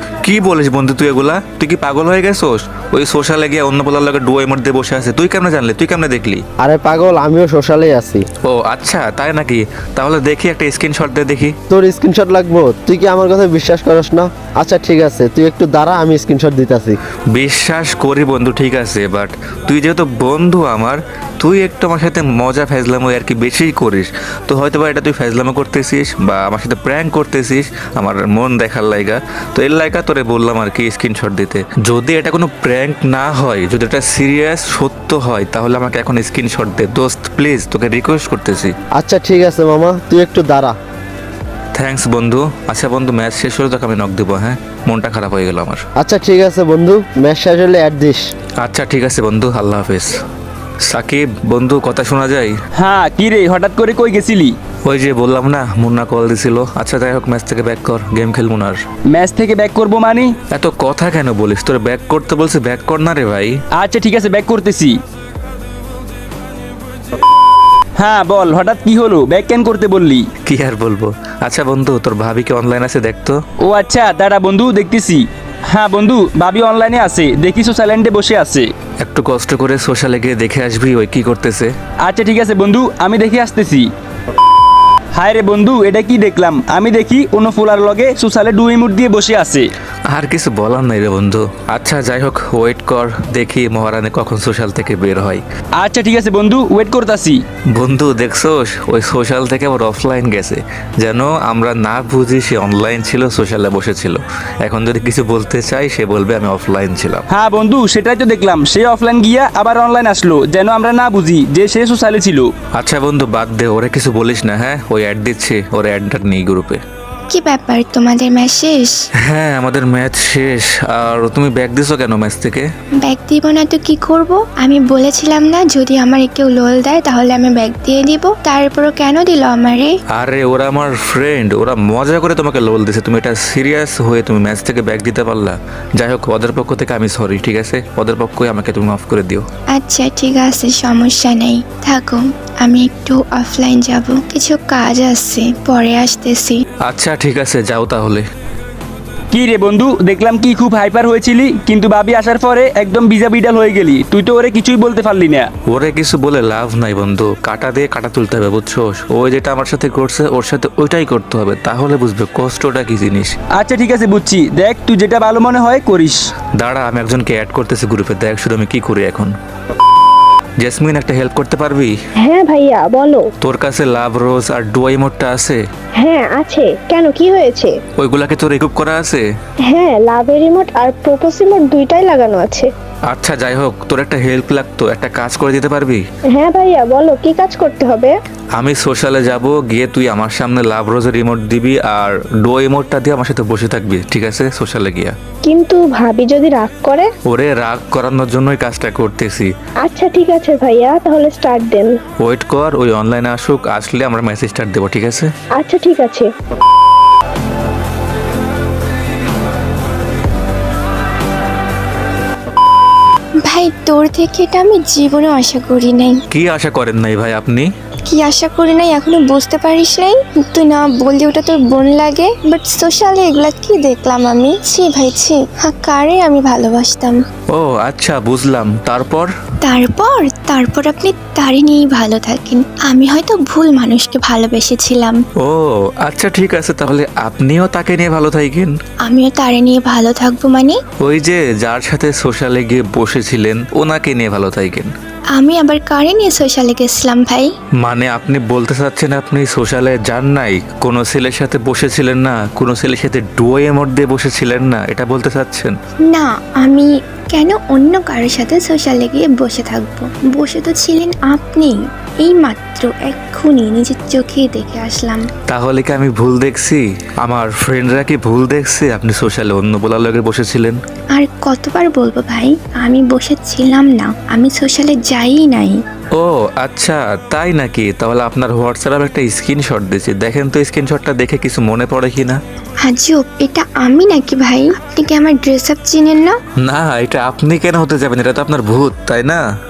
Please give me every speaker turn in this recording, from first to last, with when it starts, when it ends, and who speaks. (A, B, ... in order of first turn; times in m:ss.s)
0:00.2-0:06.4 A
0:06.6-0:08.2 B
0:08.4-0:11.6 A
0:11.7-0:17.0 B
0:17.3-0:38.8 A
0:39.0-0:40.8 B
0:41.7-0:45.8 A
0:46.0-0:48.2 B
0:48.6-0:50.2 A
0:50.8-0:52.5 A
0:52.8-0:54.6 C
0:54.8-0:58.8 A
0:59.1-1:00.4 C
1:00.5-1:03.6 A
1:03.7-1:05.0 C
1:08.0-1:10.3 C
1:10.5-1:13.4 A
1:13.6-1:18.7 C
1:19.0-1:21.7 A
1:22.0-1:23.9 C
1:25.1-1:29.7 C
1:30.1-1:35.4 A
1:35.8-1:37.4 C
1:37.7-1:47.2 A
1:47.3-1:52.5 C
1:52.8-1:56.8 A
1:57.3-1:59.0 D
1:59.2-2:02.7 A
2:03.0-2:10.0 D
2:10.1-2:19.5 A
2:19.7-2:26.6 D
2:26.8-2:28.2 A
2:29.3-2:35.5 C
2:35.7-2:43.3 A
2:43.5-2:46.2 C
2:46.6-2:49.3 A
2:50.6-2:51.9 A
2:52.2-2:53.3 E
2:53.4-2:55.6 A
2:56.0-2:57.8 E
2:58.0-2:59.2 A
2:59.7-3:02.7 E
3:03.1-3:06.0 A
3:06.3-3:08.2 E
3:08.6-3:15.2 A
3:15.4-3:17.1 E
3:17.3-3:19.5 A
3:19.8-3:21.9 E
3:22.2-3:25.3 A
3:25.6-3:26.3 E
3:33.4-3:36.2 D
3:36.3-3:37.7 A
3:38.1-3:47.2 D
3:47.5-3:49.3 A
3:49.6-3:55.2 D
3:55.4-3:58.7 A
3:59.0-4:00.8 D
4:01.0-4:04.9 A
4:05.3-4:07.5 D
4:07.8-4:15.7 A
4:16.1-4:25.3 D
4:25.5-4:30.8 A
4:31.1-4:35.8 D
4:36.2-4:42.4 A
4:42.8-4:46.4 D
4:46.6-4:49.4 A